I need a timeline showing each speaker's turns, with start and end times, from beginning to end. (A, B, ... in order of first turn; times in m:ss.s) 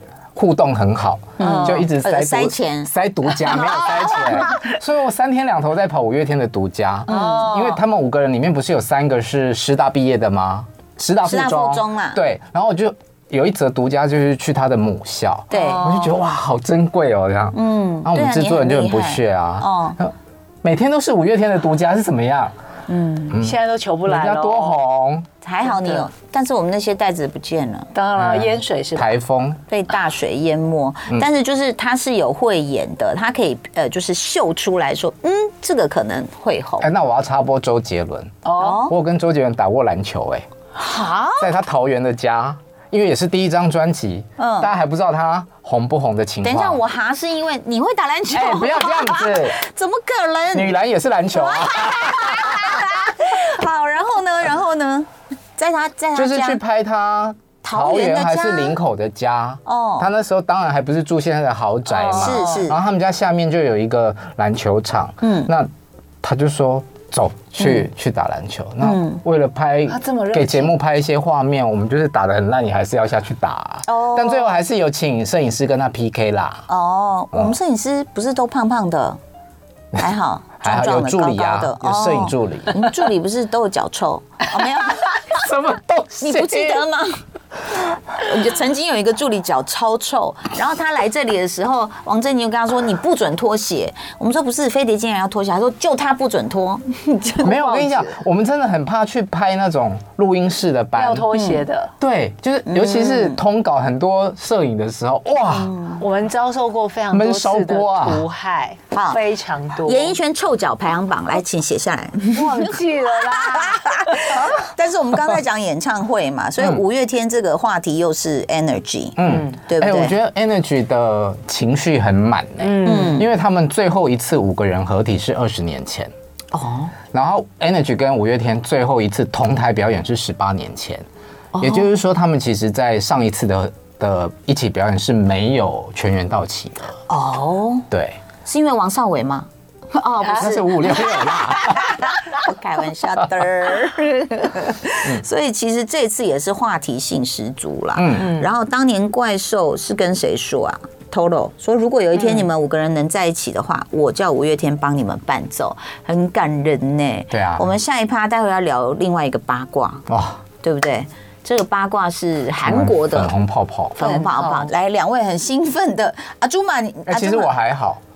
0:00.3-0:22.5 A
0:01.4-0:01.9 B
0:01.4-0:02.9 C
0:03.4-0:04.4 C
0:03.8-0:04.7 B
0:07.1-0:07.5 C
0:07.1-0:07.8 B
0:11.2-0:12.2 C
0:15.5-0:15.9 C
0:15.5-0:16.1 B
0:17.5-0:20.0 C
0:22.9-0:23.4 C
0:23.3-0:25.3 A
0:23.4-0:24.8 B
0:25.4-0:27.9 C
0:25.6-0:26.1 B
0:27.9-0:29.1 B
0:28.2-0:29.6 A
0:29.7-0:36.9 C
0:36.8-0:40.5 A
0:38.4-0:38.9 B
0:38.6-0:38.9 C
0:40.8-0:41.5 C
0:41.4-0:46.8 A
0:44.4-0:44.7 C
0:46.4-0:50.7 C
0:48.3-0:49.6 A
0:50.5-0:52.9 A
0:51.3-0:56.6 C
0:56.1-1:05.7 A
0:57.6-0:58.8 C
0:59.6-1:00.1 C
1:01.9-1:02.7 B
1:02.1-1:02.8 C
1:05.2-1:05.5 C
1:06.2-1:16.6 A
1:08.8-1:09.2 C
1:09.9-1:10.7 B
1:13.9-1:14.6 C
1:16.7-1:19.2 C
1:20.0-1:25.2 C
1:20.6-1:22.8 A
1:25.3-1:26.8 A
1:26.2-1:27.2 C
1:28.1-1:37.5 C
1:37.4-1:41.3 A
1:37.4-1:38.2 B
1:40.9-1:41.9 B
1:41.3-1:41.6 C
1:42.0-1:45.7 A
1:42.7-1:43.4 C
1:45.4-1:46.0 C
1:46.0-1:50.2 B
1:47.1-1:48.2 A
1:48.9-1:49.2 C
1:49.8-2:00.1 C
1:52.3-1:54.4 B
1:59.2-2:06.1 A
1:59.2-1:59.6 B
2:02.6-2:03.2 B
2:02.8-2:03.3 C
2:06.5-2:06.9 C
2:07.1-2:11.0 A
2:11.5-2:11.9 C
2:11.6-2:17.0 A
2:17.1-2:17.9 C
2:17.9-2:18.2 A
2:18.4-2:40.1 C
2:20.3-2:22.0 A
2:27.9-2:28.3 A
2:28.2-2:28.5 B
2:32.1-2:32.5 B
2:37.3-2:37.7 A
2:40.1-2:40.4 A
2:40.6-2:43.3 C
2:42.6-2:44.1 A
2:44.0-2:47.5 C
2:44.0-2:44.7 B
2:47.1-2:48.0 A